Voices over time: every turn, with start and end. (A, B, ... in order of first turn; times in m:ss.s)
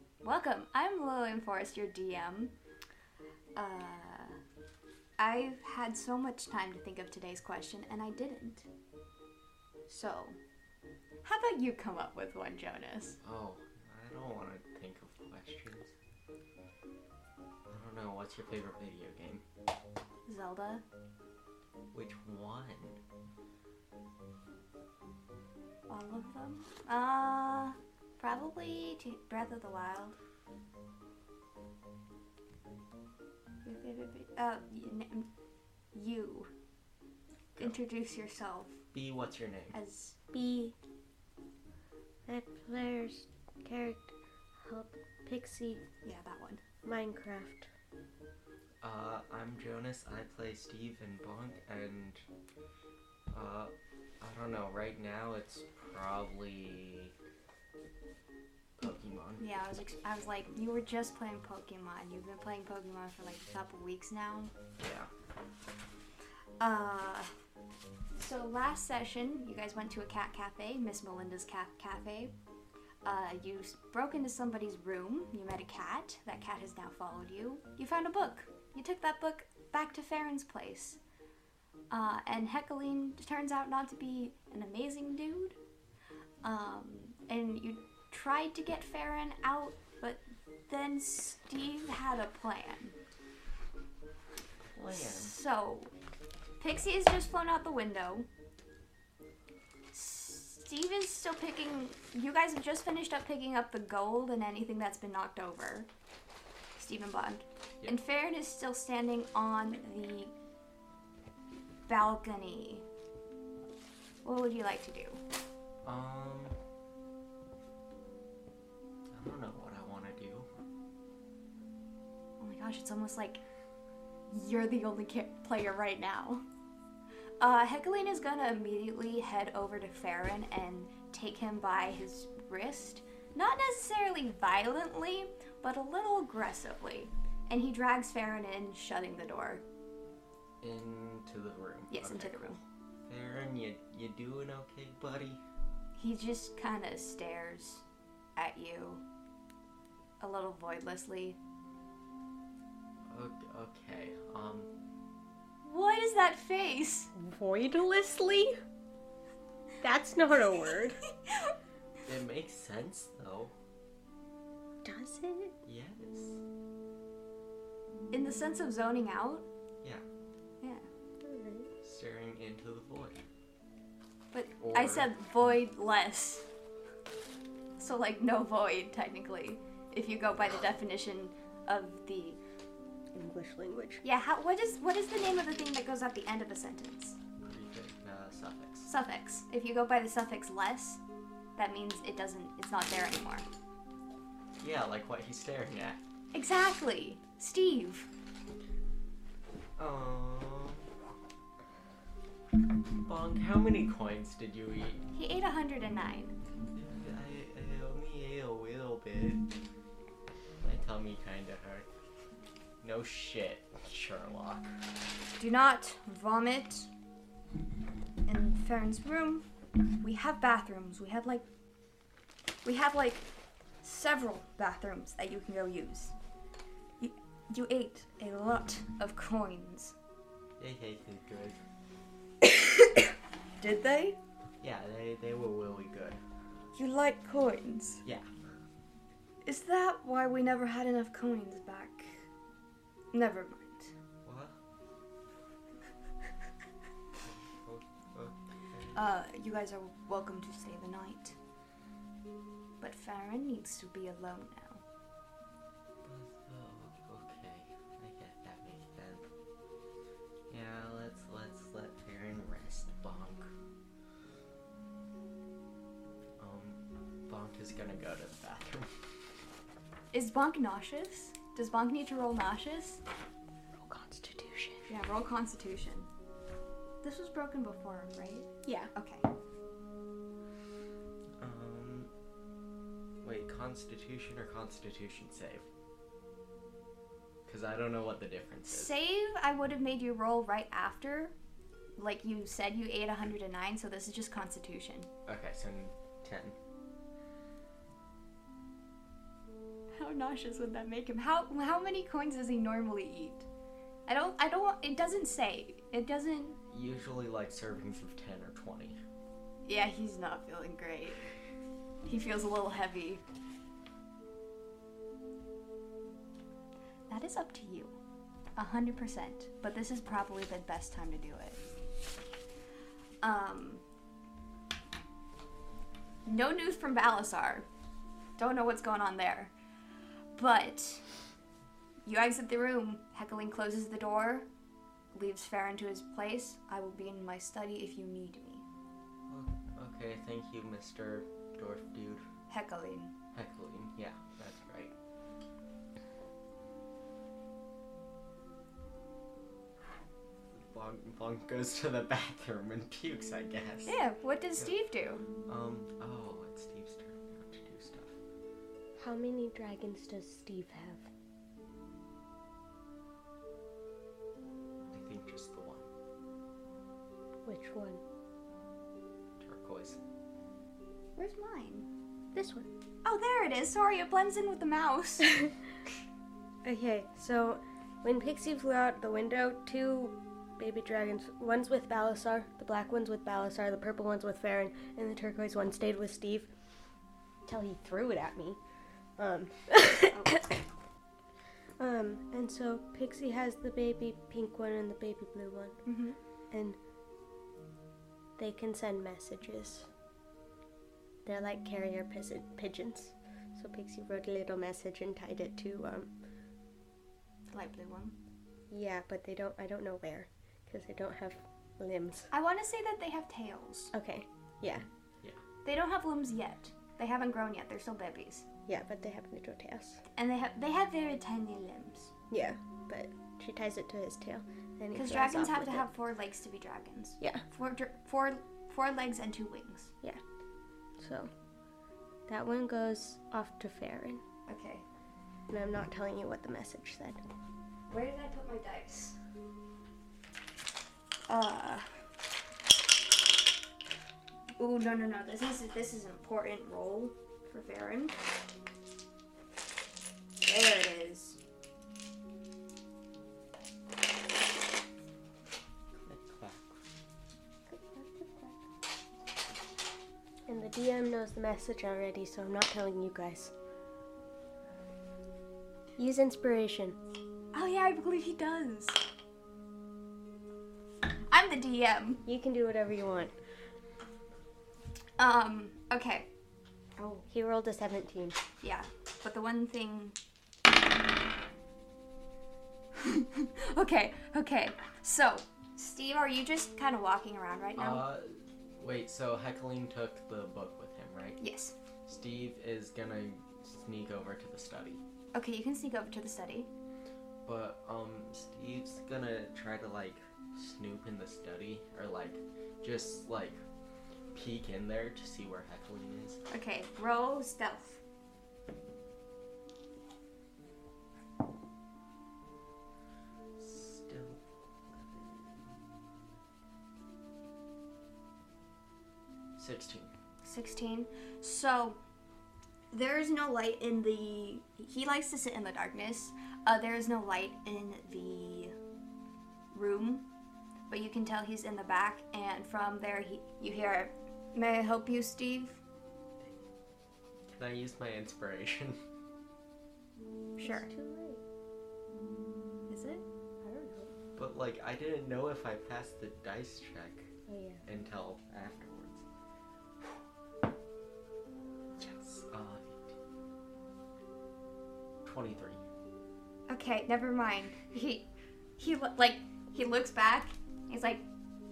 0:00.2-0:02.5 A
0:03.6-0:04.4 A
0:05.2-0:08.7 A
0:09.9-0:10.4 A
0:11.2-0:13.2 A
0:13.2-0:15.9 B
0:17.7-0:19.4 B
0:20.2-0:20.8 A
0:21.9-0:23.0 B
0:25.9-0:30.2 A
0:33.6-0:35.3 A
0:35.9-0:36.5 A
0:37.6-0:38.8 A
0:38.9-0:39.8 B
0:39.7-0:40.2 A
0:40.3-0:40.7 C
0:42.2-0:45.8 C
0:46.0-0:46.6 A
0:46.8-0:47.6 C
0:48.8-0:52.2 B
0:53.3-0:57.1 B
0:58.8-0:59.4 B
0:59.4-1:04.5 A
1:04.8-1:05.1 B
1:06.6-1:07.3 A
1:08.2-1:12.3 A
1:13.0-1:21.0 A
1:21.9-1:25.6 A
1:26.4-1:32.9 A
1:34.7-1:35.3 B
1:34.9-1:35.9 A
1:36.6-1:38.3 A
1:39.9-1:45.9 A
1:46.8-1:50.3 A
1:51.9-1:52.8 A
1:54.2-1:55.2 A
1:55.8-1:56.6 B
1:59.1-2:00.5 B
2:02.4-2:03.4 A
2:04.3-2:06.4 A
2:07.4-2:19.6 A
2:20.6-2:22.4 B
2:21.9-2:22.6 A
2:23.0-2:25.4 B
2:26.0-2:27.8 A
2:28.4-2:29.0 A
2:30.2-2:31.4 A
2:33.1-2:34.7 B
2:35.6-2:37.1 A
2:37.2-2:38.5 C
2:39.8-2:41.0 C
2:42.0-2:43.5 B
2:44.8-2:45.6 C
2:45.6-2:46.4 B
2:48.1-2:49.4 A
2:51.2-2:51.7 C
2:51.8-2:53.2 B
2:54.3-2:56.5 A
2:54.6-2:55.1 B
2:57.8-3:02.4 A
3:03.1-3:04.0 C
3:04.0-3:07.2 A
3:07.4-3:08.9 B
3:08.8-3:11.0 A
3:11.6-3:13.4 A
3:14.6-3:16.0 B
3:16.3-3:18.1 A
3:19.8-3:20.8 B
3:23.0-3:25.0 B
3:25.1-3:26.3 A
3:26.7-3:29.4 B
3:30.6-3:31.9 B
3:32.8-3:34.7 B
3:35.4-3:36.9 A
3:38.2-3:39.4 A
3:40.0-3:41.4 A
3:42.6-3:43.2 A
3:43.8-3:46.1 A
3:47.0-3:49.9 A
3:50.6-3:51.6 B
3:52.4-3:54.2 A
3:54.6-3:56.2 B
3:56.7-3:58.0 A
3:59.4-4:02.2 A
4:03.1-4:03.9 A
4:04.2-4:04.5 B
4:07.2-4:09.0 B
4:08.9-4:11.4 A
4:12.8-4:14.8 A
4:16.0-4:19.2 B
4:20.5-4:23.5 B
4:26.4-4:28.9 B
4:30.1-4:33.0 A
4:33.8-4:34.8 C
4:34.9-4:36.1 A
4:37.0-4:39.3 A
4:38.6-4:38.9 C
4:41.4-4:42.1 B
4:43.2-4:45.7 B
4:47.5-4:48.9 B
4:48.7-4:51.3 A
4:52.0-4:55.1 A
4:55.2-4:56.5 B
4:59.9-5:03.4 A
5:04.1-5:06.6 A
5:06.7-5:09.0 B
5:09.6-5:11.3 A
5:12.0-5:13.2 A
5:17.1-5:17.9 A
5:18.6-5:21.6 A
5:23.2-5:23.8 A
5:26.2-5:27.6 A
5:28.4-5:29.5 A
5:30.3-5:31.0 A
5:32.0-5:34.5 A
5:35.1-5:38.6 A
5:39.3-5:42.2 B
5:42.5-5:43.1 A
5:43.3-5:44.9 B
5:50.5-5:54.0 B
5:53.8-5:55.2 A
5:55.4-5:58.1 B
5:59.0-6:01.0 C
6:04.9-6:05.8 B
6:07.4-6:08.0 C
6:09.4-6:10.0 B
6:11.2-6:11.9 A
6:12.3-6:12.7 C
6:13.0-6:15.4 A
6:16.6-6:26.5 C
6:27.4-6:28.6 C
6:29.2-6:30.6 C
6:30.1-6:30.4 A
6:31.8-6:35.8 C
6:35.8-6:36.2 A
6:36.5-6:36.8 C
6:38.4-6:39.9 C
6:41.2-6:46.1 C
6:47.5-6:48.2 A
6:48.7-6:52.3 C
6:52.3-6:53.9 A
6:53.9-6:54.8 C
6:55.6-6:58.4 A
6:58.7-7:00.0 C
7:00.1-7:02.1 A
7:02.3-7:05.9 C
7:04.9-7:09.9 A
7:11.0-7:11.3 C
7:12.3-7:14.2 C
7:14.5-7:14.8 A
7:15.5-7:17.2 C
7:17.9-7:19.2 A
7:21.3-7:21.9 A
7:24.6-7:28.1 A
7:30.4-7:31.4 A
7:35.9-7:36.8 B
7:37.7-7:38.6 C
7:40.4-7:43.5 C
7:46.0-7:47.0 C
7:47.5-7:49.0 A
7:51.3-7:52.2 A
7:52.2-7:53.3 C
7:55.2-7:56.3 A
7:57.0-7:57.2 A
7:57.3-7:58.4 C
7:58.6-8:00.2 A
8:03.0-8:08.0 A
8:07.8-8:11.4 B
8:11.4-8:11.7 A
8:12.0-8:15.0 B
8:15.3-8:16.7 A
8:17.4-8:23.6 B
8:24.3-8:26.4 B
8:26.5-8:28.0 A
8:33.6-8:34.4 B
8:34.9-8:35.9 B
8:39.6-8:40.1 B
8:40.4-8:42.0 A
8:42.9-8:48.8 A
8:49.7-8:50.2 A
8:50.9-8:55.8 A
8:57.5-8:59.0 B
9:00.6-9:01.4 C
9:00.6-9:00.9 A
9:02.9-9:03.2 A
9:03.6-9:04.1 C
9:04.4-9:07.3 B
9:07.5-9:07.8 C
9:07.8-9:09.2 B
9:12.0-9:12.3 A
9:12.4-9:13.1 B
9:15.2-9:15.8 B
9:16.7-9:18.3 A
9:18.8-9:21.2 A